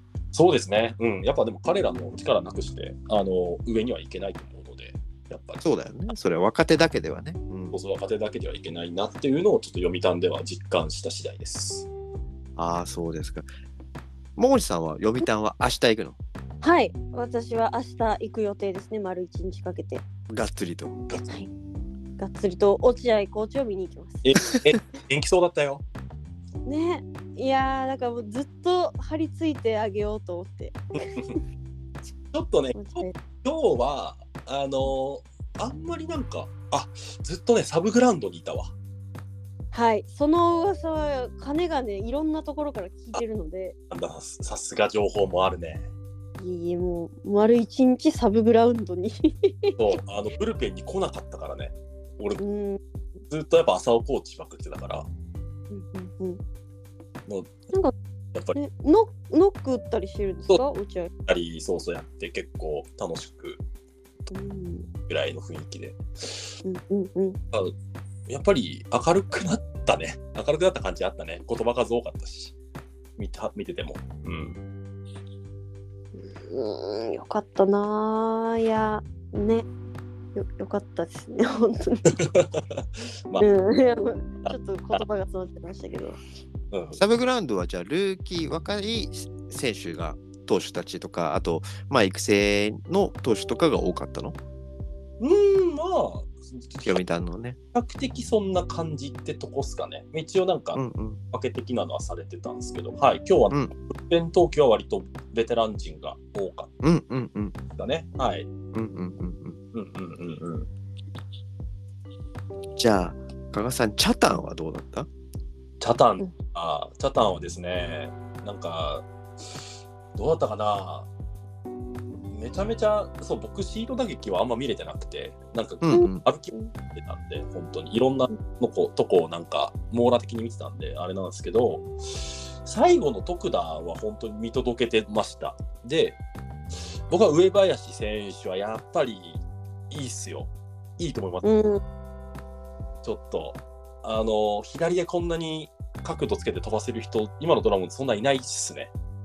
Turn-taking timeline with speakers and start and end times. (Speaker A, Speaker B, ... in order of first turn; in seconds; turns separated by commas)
Speaker A: 0.3-5.7, Speaker B: 5.6-7.8, Speaker A: 7.7-11.9, Speaker B: 12.6-13.5, Speaker B: 14.4-16.2, Speaker C: 16.6-20.0, Speaker B: 20.3-21.0, Speaker C: 22.2-24.4, Speaker A: 24.2-25.8, Speaker C: 26.7-30.8, Speaker A: 31.0-31.4, Speaker A: 32.3-38.7, Speaker C: 32.8-33.1, Speaker C: 39.7-43.8, Speaker A: 43.9-45.9, Speaker C: 46.4-49.8, Speaker A: 49.8-52.4, Speaker C: 52.4-52.8, Speaker A: 53.3-55.1, Speaker C: 55.7-56.4, Speaker A: 57.3-57.5, Speaker C: 58.6-61.1, Speaker A: 61.3-63.6, Speaker C: 64.3-64.9, Speaker A: 65.1-66.6, Speaker C: 66.6-67.4, Speaker A: 68.3-72.5, Speaker A: 73.2-74.6, Speaker C: 76.2-79.7, Speaker C: 80.3-82.2, Speaker A: 82.1-83.5, Speaker C: 83.4-86.2, Speaker A: 86.7-87.0, Speaker B: 87.0-94.4, Speaker A: 95.2-97.0, Speaker B: 96.8-97.6, Speaker A: 97.7-100.8, Speaker B: 100.7-101.2, Speaker A: 101.3-106.7, Speaker B: 106.8-107.5, Speaker A: 107.8-108.5, Speaker B: 108.7-109.6, Speaker A: 109.7-110.7, Speaker B: 112.8-115.1, Speaker A: 115.8-119.1, Speaker A: 120.2-121.1, Speaker A: 122.3-136.2, Speaker B: 125.8-126.2, Speaker C: 125.9-126.7, Speaker A: 137.1-141.6, Speaker C: 141.4-141.8, Speaker A: 143.0-148.9